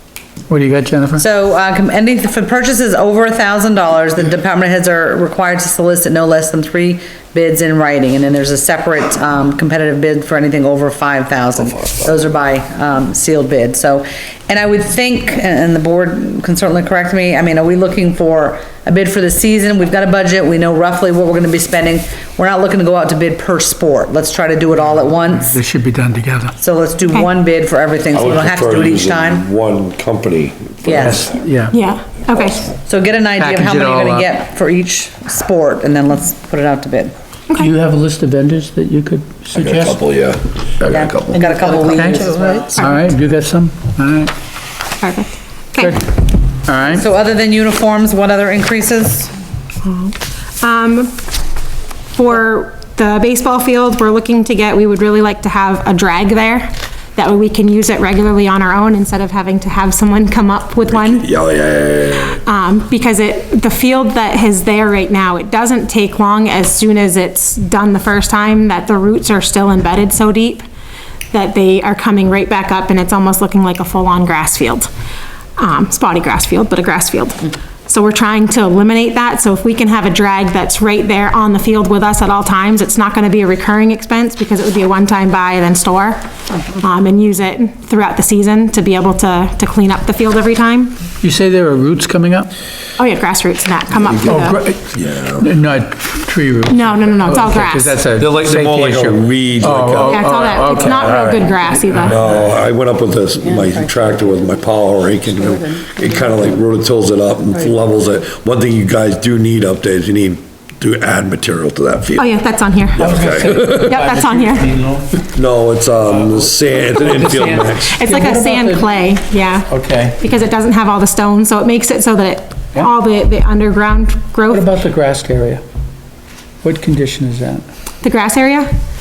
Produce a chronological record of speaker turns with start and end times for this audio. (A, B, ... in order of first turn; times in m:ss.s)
0:00.5-0:01.2 A
0:01.2-0:25.6 B
0:25.4-0:26.5 A
0:26.6-0:29.4 B
0:28.1-0:31.3 C
0:30.8-0:31.2 B
0:31.0-0:31.8 A
0:31.7-0:32.7 D
0:32.9-0:37.1 B
0:33.4-0:34.3 A
0:37.6-0:40.0 A
0:39.5-0:41.5 C
0:40.9-0:42.7 B
0:41.7-0:44.3 A
0:42.7-0:43.1 D
0:45.0-0:46.0 D
0:45.8-0:46.0 A
0:46.7-0:47.0 A
0:46.9-0:49.3 B
0:49.8-0:51.2 D
0:52.1-1:01.3 D
1:00.9-1:02.4 C
1:02.4-1:10.6 D
1:11.3-1:14.9 D
1:15.6-1:26.2 D
1:26.7-1:31.0 D
1:31.2-1:32.5 A
1:33.0-1:34.6 D
1:34.2-1:42.2 A
1:34.9-1:35.5 C
1:36.7-1:38.0 D
1:38.2-1:40.6 C
1:40.1-1:42.2 D
1:42.0-1:52.2 C
1:43.5-1:44.4 B
1:52.2-1:53.1 D
1:53.0-1:54.0 C
1:53.0-1:55.2 A
1:53.7-1:54.7 D
1:55.3-1:57.9 C
1:56.0-1:58.8 A
1:57.9-2:04.7 D
1:59.7-2:00.2 A
2:04.5-2:05.6 A
2:06.6-2:07.6 A
2:08.0-2:08.7 D